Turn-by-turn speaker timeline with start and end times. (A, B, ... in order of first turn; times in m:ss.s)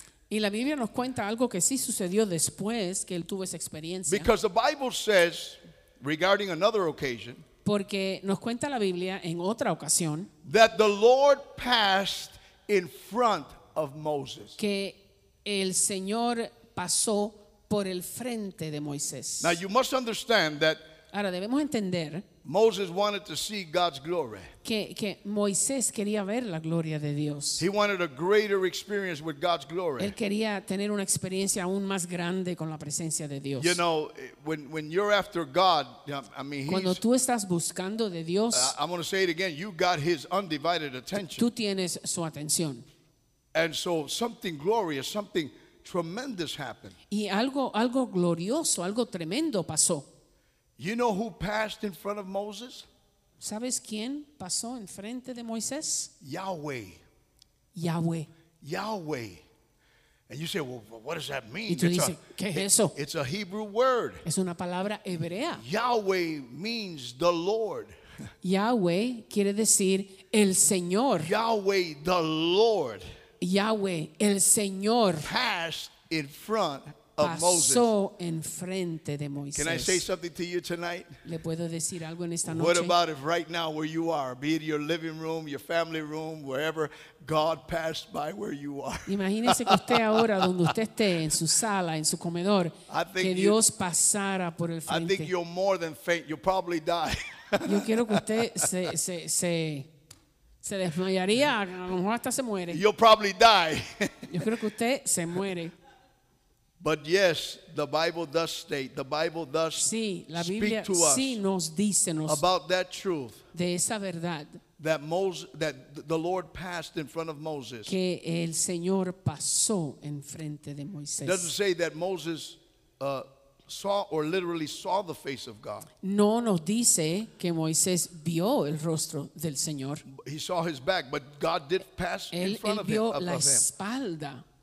0:00.3-0:04.3 A
0:04.1-0:07.4 B
0:07.6-0:10.3 A
0:10.4-0:14.6 B
0:14.6-0:19.6 A
0:19.4-0:20.8 B
0:21.1-0:22.2 A
0:22.4-0:24.5 B
0:24.6-0:27.6 A
0:27.6-0:30.2 B
0:30.0-0:33.8 A
0:33.6-0:37.0 B
0:36.7-0:38.8 A
0:38.5-0:41.5 B
0:41.4-0:42.8 A
0:43.5-0:46.9 B
0:47.1-0:50.1 A
0:50.8-0:52.9 B
0:53.4-0:56.1 A
0:56.2-0:57.0 B
0:57.8-0:58.3 A
0:58.6-0:59.4 B
1:00.3-1:04.2 B
1:01.7-1:03.0 A
1:04.2-1:05.6 A
1:05.6-1:07.9 B
1:08.4-1:11.3 A
1:11.2-1:13.0 B
1:13.4-1:15.3 A
1:15.2-1:17.9 B
1:17.2-1:20.0 A
1:19.6-1:21.2 B
1:21.2-1:23.0 A
1:22.4-1:30.7 B
1:29.1-1:35.3 A
1:32.9-1:33.6 B
1:34.9-1:38.9 B
1:37.6-1:39.9 A
1:40.6-1:42.8 A
1:42.7-1:44.5 B
1:44.3-1:45.8 A
1:46.8-1:51.4 B
1:49.8-1:52.4 A
1:52.2-1:53.4 B
1:53.5-1:54.6 A
1:54.8-1:58.0 B
1:57.9-2:01.5 A
2:01.2-2:05.9 B
2:06.0-2:10.0 A
2:10.1-2:13.7 B
2:12.3-2:14.4 A